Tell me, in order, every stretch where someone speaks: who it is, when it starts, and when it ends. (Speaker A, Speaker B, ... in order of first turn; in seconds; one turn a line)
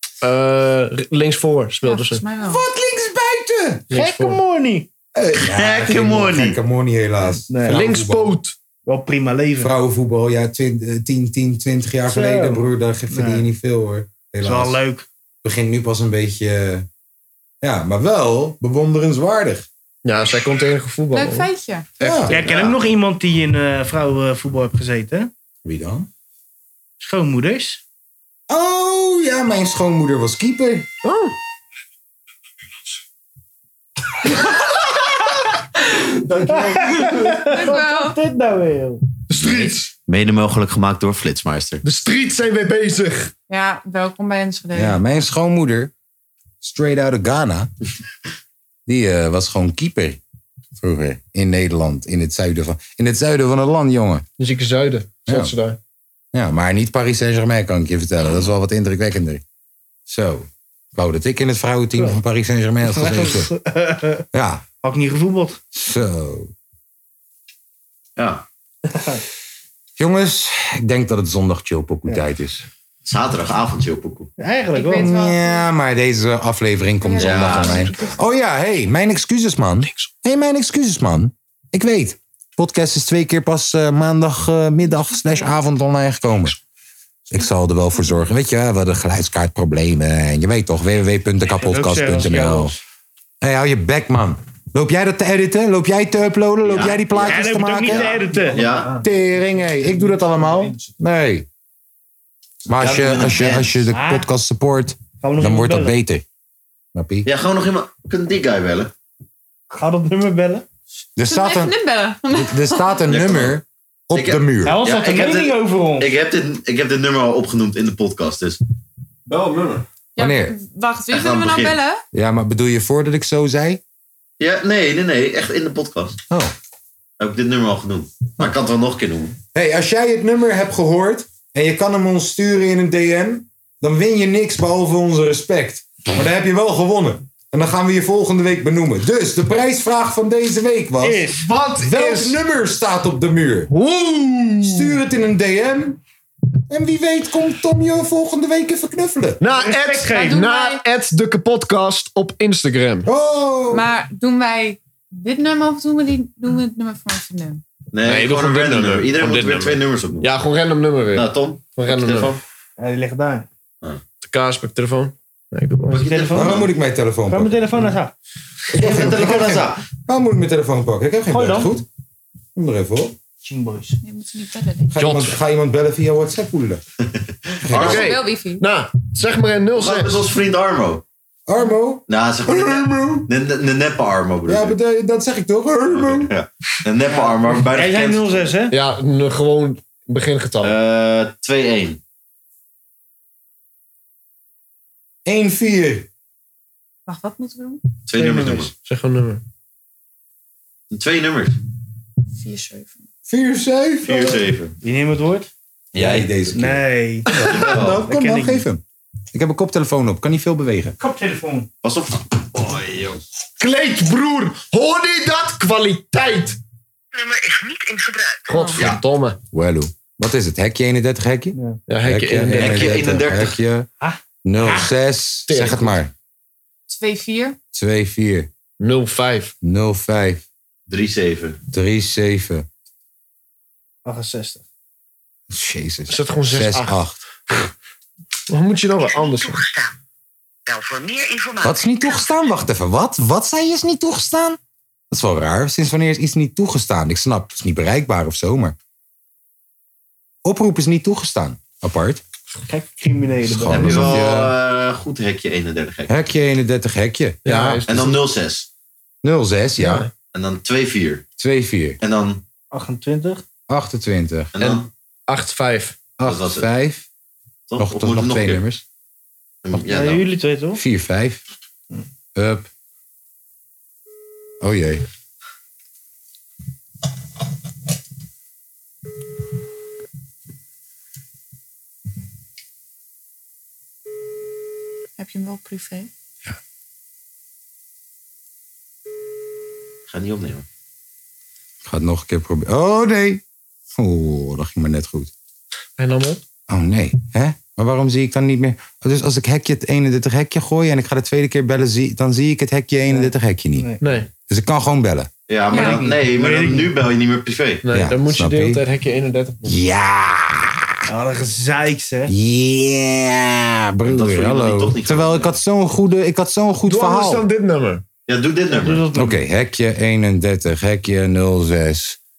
Speaker A: 0.2-2.2
Speaker B: 1.8-2.6
Speaker C: 2.4-4.0
Speaker A: 3.9-4.4
Speaker D: 3.9-4.9
Speaker C: 5.1-8.3
Speaker E: 5.4-6.6
Speaker D: 7.5-7.9
Speaker A: 7.7-8.5
Speaker D: 8.8-9.7
Speaker C: 9.6-14.8
Speaker D: 12.1-13.4
Speaker D: 14.4-15.1
Speaker C: 15.4-16.9
Speaker C: 17.6-19.7
Speaker A: 20.0-21.5
Speaker B: 21.1-21.9
Speaker C: 22.0-22.6
Speaker A: 22.0-22.7
Speaker D: 22.3-25.3
Speaker C: 25.6-26.1
Speaker D: 27.0-27.8
Speaker C: 28.5-30.9
Speaker A: 31.0-31.3
Speaker A: 36.3-37.4
Speaker D: 36.5-39.0
Speaker B: 37.2-38.2
Speaker A: 39.3-39.9
Speaker E: 40.1-41.8
Speaker A: 41.8-43.3
Speaker B: 43.5-45.0
Speaker C: 44.7-45.9
Speaker C: 46.6-47.7
Speaker C: 48.9-50.2
Speaker C: 50.8-54.2
Speaker A: 54.4-55.8
Speaker C: 55.3-55.5
Speaker C: 56.3-59.4
Speaker C: 60.1-63.5
Speaker D: 62.9-64.2
Speaker C: 64.3-64.6
Speaker D: 64.8-65.6
Speaker C: 65.7-66.5
Speaker E: 68.2-68.4
Speaker D: 68.9-69.2
Speaker C: 70.0-72.6
Speaker E: 73.0-74.3
Speaker D: 74.4-75.1
Speaker B: 74.7-75.7
Speaker C: 74.9-86.6
Speaker B: 77.0-78.2
Speaker E: 77.2-77.9
Speaker B: 85.1-85.5
Speaker C: 87.3-92.7
Speaker D: 91.5-92.8
Speaker C: 93.4-98.2
Speaker E: 96.7-99.0
Speaker D: 97.2-98.8
Speaker C: 99.0-101.5
Speaker D: 100.2-100.7
Speaker C: 102.7-106.2
Speaker E: 102.8-103.8
Speaker D: 103.9-104.3
Speaker D: 105.2-106.0
Speaker C: 106.9-107.3
Speaker E: 107.2-108.9
Speaker D: 109.7-110.6
Speaker C: 111.2-111.7
Speaker B: 111.2-113.0
Speaker C: 112.3-114.8
Speaker E: 113.1-118.6
Speaker D: 114.6-116.1
Speaker A: 119.3-119.8
Speaker B: 120.2-122.0
Speaker C: 120.2-120.5
Speaker E: 121.1-121.8
Speaker C: 122.1-123.8
Speaker E: 124.4-126.2
Speaker E: 127.2-129.3
Speaker C: 129.5-143.7
Speaker D: 141.0-141.4
Speaker A: 141.4-142.4
Speaker A: 143.7-144.9
Speaker C: 144.6-146.0
Speaker C: 146.7-149.4
Speaker A: 149.4-153.1
Speaker D: 149.5-150.6
Speaker B: 150.1-150.8
Speaker C: 153.0-153.8
Speaker B: 153.7-157.6
Speaker E: 157.9-160.3
Speaker A: 158.0-162.3
Speaker E: 161.1-162.4
Speaker D: 162.8-163.5
Speaker A: 164.2-166.4
Speaker E: 165.9-166.7
Speaker D: 166.1-166.6
Speaker C: 166.3-167.6
Speaker D: 167.3-168.1
Speaker C: 168.7-171.8
Speaker E: 168.7-169.8
Speaker D: 171.3-171.7
Speaker C: 172.5-173.2
Speaker D: 173.4-174.0
Speaker B: 174.0-174.9
Speaker C: 174.9-176.8
Speaker A: 174.9-175.4
Speaker C: 177.5-178.2
Speaker E: 177.7-178.1
Speaker A: 177.8-180.3
Speaker B: 177.8-178.6
Speaker E: 179.7-181.0
Speaker C: 181.5-182.0
Speaker E: 182.1-184.8
Speaker C: 182.7-183.2
Speaker C: 184.4-186.3
Speaker E: 185.9-188.5
Speaker D: 187.7-188.7
Speaker A: 188.7-190.7
Speaker E: 190.6-192.0
Speaker C: 195.2-196.1
Speaker B: 197.1-197.8
Speaker E: 198.1-198.7
Speaker A: 198.2-199.4
Speaker E: 200.9-201.6
Speaker B: 202.3-203.0
Speaker C: 203.3-204.4
Speaker E: 204.0-204.7
Speaker D: 204.8-205.5
Speaker E: 205.9-206.3
Speaker C: 205.9-206.8
Speaker D: 206.5-208.6
Speaker E: 207.3-208.0
Speaker C: 207.6-208.8
Speaker C: 209.3-210.9
Speaker D: 211.0-211.7
Speaker E: 211.8-213.2
Speaker A: 213.6-216.6
Speaker F: 217.1-218.4
Speaker A: 218.5-219.4
Speaker B: 218.5-218.8
Speaker C: 219.5-223.9
Speaker A: 221.9-223.2
Speaker E: 222.4-223.6
Speaker D: 224.0-224.9
Speaker C: 224.4-226.1
Speaker A: 225.5-226.0
Speaker B: 226.9-227.6
Speaker C: 227.7-228.5
Speaker A: 228.8-229.5
Speaker C: 229.6-230.4
Speaker E: 230.9-231.6
Speaker C: 231.7-232.7
Speaker D: 234.0-234.6
Speaker C: 235.5-237.2
Speaker A: 236.1-236.9
Speaker A: 238.5-239.6
Speaker F: 239.0-239.9
Speaker F: 240.7-242.5
Speaker C: 241.6-244.6
Speaker C: 245.1-248.7
Speaker C: 250.4-252.2
Speaker D: 252.7-254.2
Speaker C: 253.5-254.5
Speaker E: 253.7-256.1
Speaker C: 256.1-257.8
Speaker A: 257.4-258.2
Speaker E: 257.9-258.7
Speaker C: 259.2-260.1
Speaker A: 259.8-260.1
Speaker E: 260.3-261.2
Speaker C: 261.4-262.0
Speaker E: 262.0-262.4
Speaker D: 262.7-263.4
Speaker C: 263.7-264.5
Speaker E: 264.5-264.9
Speaker A: 264.6-266.0
Speaker C: 266.2-267.1
Speaker E: 266.2-266.7
Speaker E: 267.7-268.6
Speaker C: 267.8-268.8
Speaker E: 269.6-270.2
Speaker D: 269.8-270.8
Speaker C: 270.7-271.4
Speaker C: 272.3-272.7
Speaker C: 274.6-275.0
Speaker B: 285.2-286.1
Speaker E: 290.1-290.6
Speaker C: 291.8-293.4
Speaker C: 293.9-295.3
Speaker A: 296.0-296.4
Speaker C: 296.7-303.9
Speaker D: 303.1-304.0
Speaker A: 304.0-304.3
Speaker C: 304.5-305.3
Speaker E: 305.5-307.8
Speaker B: 305.7-306.0
Speaker D: 305.7-306.9
Speaker A: 307.8-309.8
Speaker C: 307.9-308.8
Speaker C: 309.6-310.9
Speaker D: 311.1-312.3
Speaker C: 312.3-317.4
Speaker E: 314.1-315.6
Speaker A: 316.9-318.0
Speaker E: 318.3-319.1
Speaker D: 318.7-319.4
Speaker C: 319.1-322.2